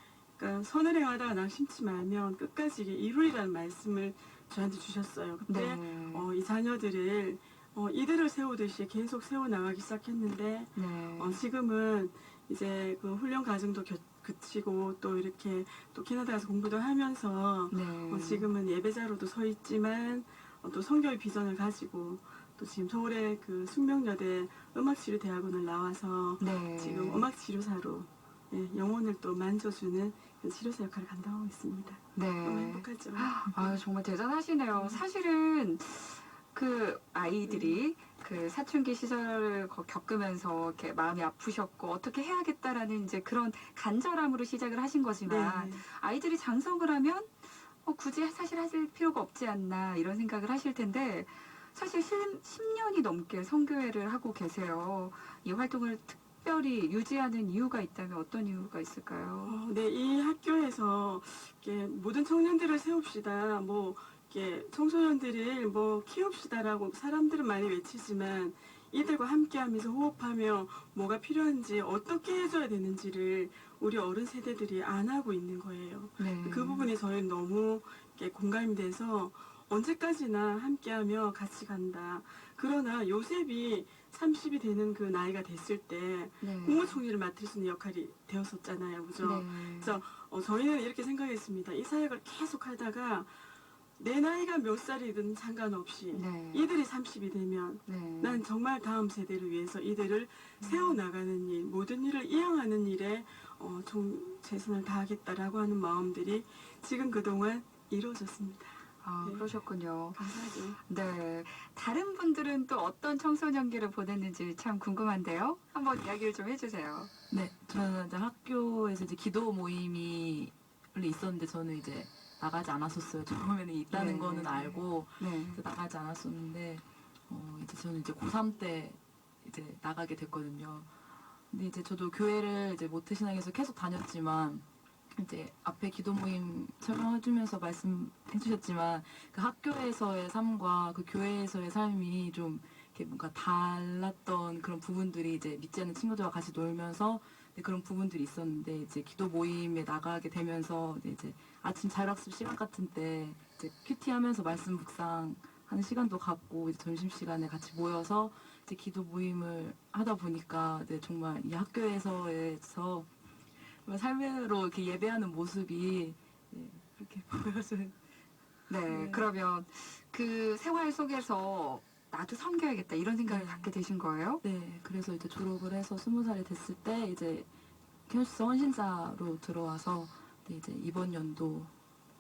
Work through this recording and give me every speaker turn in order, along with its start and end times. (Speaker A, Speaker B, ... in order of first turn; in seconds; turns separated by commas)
Speaker A: 0.4-33.8, Speaker B: 5.5-6.3, Speaker B: 10.7-11.4, Speaker B: 17.7-18.5, Speaker B: 26.4-27.3, Speaker B: 32.1-59.6, Speaker A: 37.5-37.8, Speaker A: 45.2-45.8, Speaker A: 59.4-93.4, Speaker B: 76.2-76.9, Speaker B: 86.4-87.0, Speaker B: 89.2-90.0, Speaker A: 94.0-109.5, Speaker B: 96.1-96.7, Speaker B: 97.8-98.4, Speaker B: 100.6-101.0, Speaker B: 109.0-117.1, Speaker A: 110.1-110.8, Speaker C: 117.3-130.9, Speaker B: 123.9-125.6, Speaker C: 131.5-163.1, Speaker C: 163.7-168.0, Speaker B: 168.7-174.4, Speaker C: 168.8-169.2, Speaker C: 173.2-173.7, Speaker C: 174.4-177.5, Speaker C: 178.1-181.7